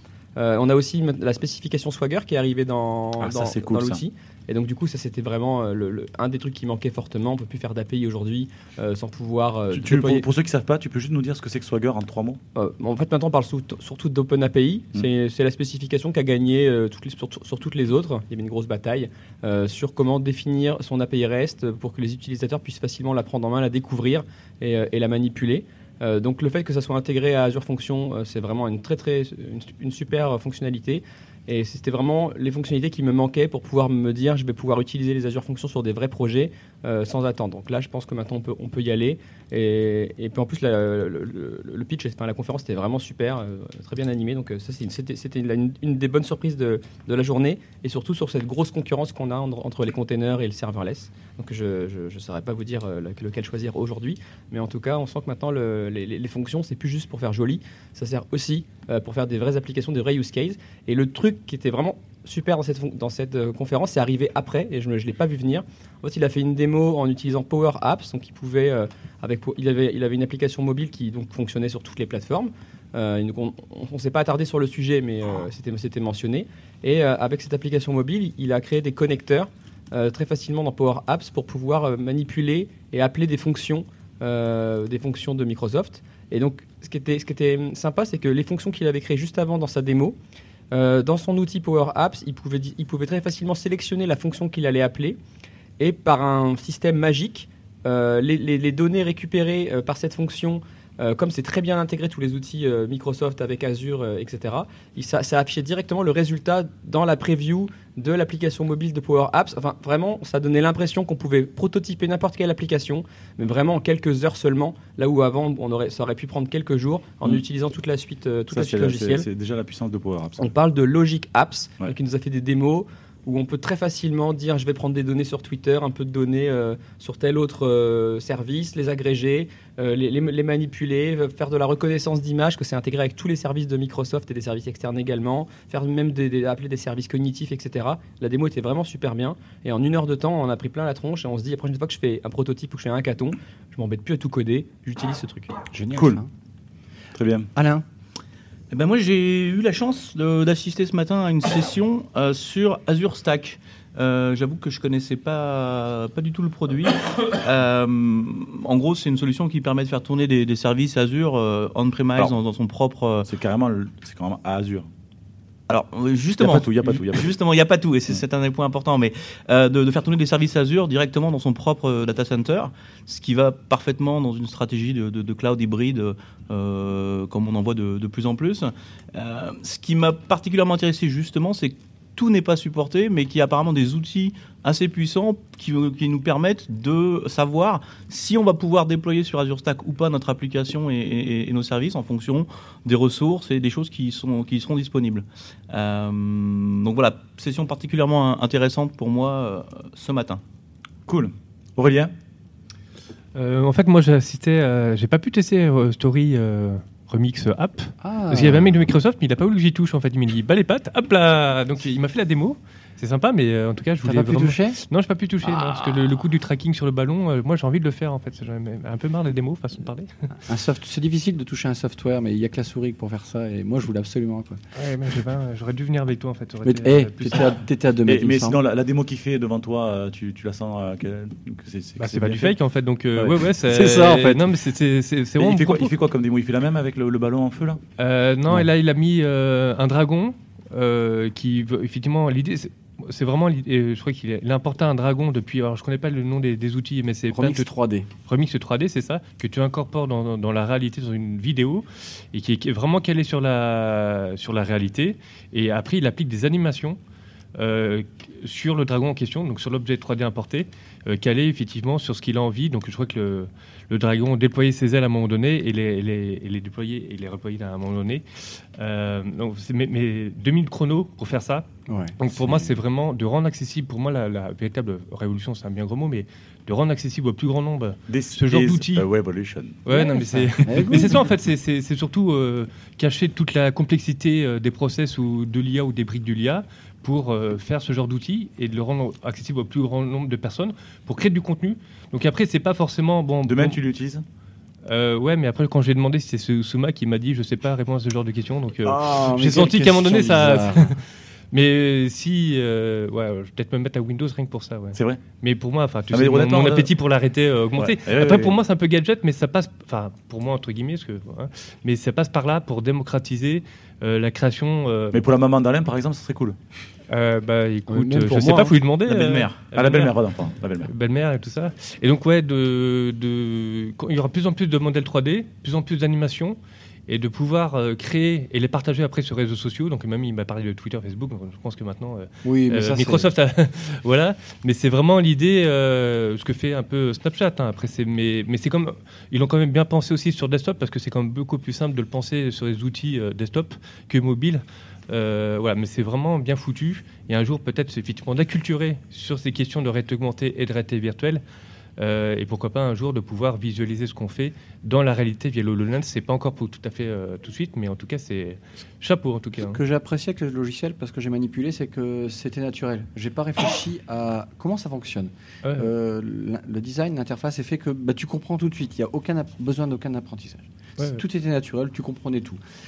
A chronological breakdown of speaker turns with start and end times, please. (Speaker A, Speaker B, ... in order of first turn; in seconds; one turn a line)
Speaker A: 0.4-10.3
Speaker B: 3.2-4.0
Speaker B: 9.7-12.4
Speaker A: 12.6-90.2
Speaker A: 90.7-95.2
Speaker A: 95.8-119.3
Speaker B: 118.5-120.5
Speaker A: 120.4-145.6
Speaker C: 145.7-146.3
Speaker B: 145.9-146.2
Speaker B: 147.2-147.5
Speaker C: 147.6-147.8
Speaker D: 148.7-163.3
Speaker B: 163.2-164.9
Speaker D: 165.7-200.4
Speaker B: 166.4-167.3
Speaker B: 201.1-202.1
Speaker E: 203.3-220.1
Speaker C: 208.0-208.7
Speaker C: 214.0-214.8
Speaker C: 220.4-224.6
Speaker E: 224.8-227.6
Speaker C: 226.6-228.6
Speaker B: 228.1-232.6
Speaker E: 232.0-235.9
Speaker B: 233.2-233.4
Speaker C: 233.7-234.4
Speaker B: 235.4-237.8
Speaker E: 238.0-247.7
Speaker C: 247.3-248.1
Speaker E: 248.2-257.0
Speaker E: 257.6-268.2
Speaker E: 268.8-271.7
Speaker C: 271.9-272.7
Speaker E: 272.2-279.1
Speaker B: 278.1-279.8
Speaker E: 279.9-293.8
Speaker C: 279.9-281.2
Speaker B: 293.5-294.2
Speaker E: 294.9-301.0
Speaker C: 298.8-301.0
Speaker E: 301.5-315.3
Speaker B: 304.9-305.2
Speaker B: 306.1-306.9
Speaker B: 307.8-308.6
Speaker B: 315.1-316.6
Speaker E: 317.1-320.2
Speaker C: 317.9-318.8
Speaker B: 319.1-320.9
Speaker E: 320.9-351.4
Speaker C: 332.4-333.3
Speaker E: 352.0-359.8
Speaker C: 359.7-372.6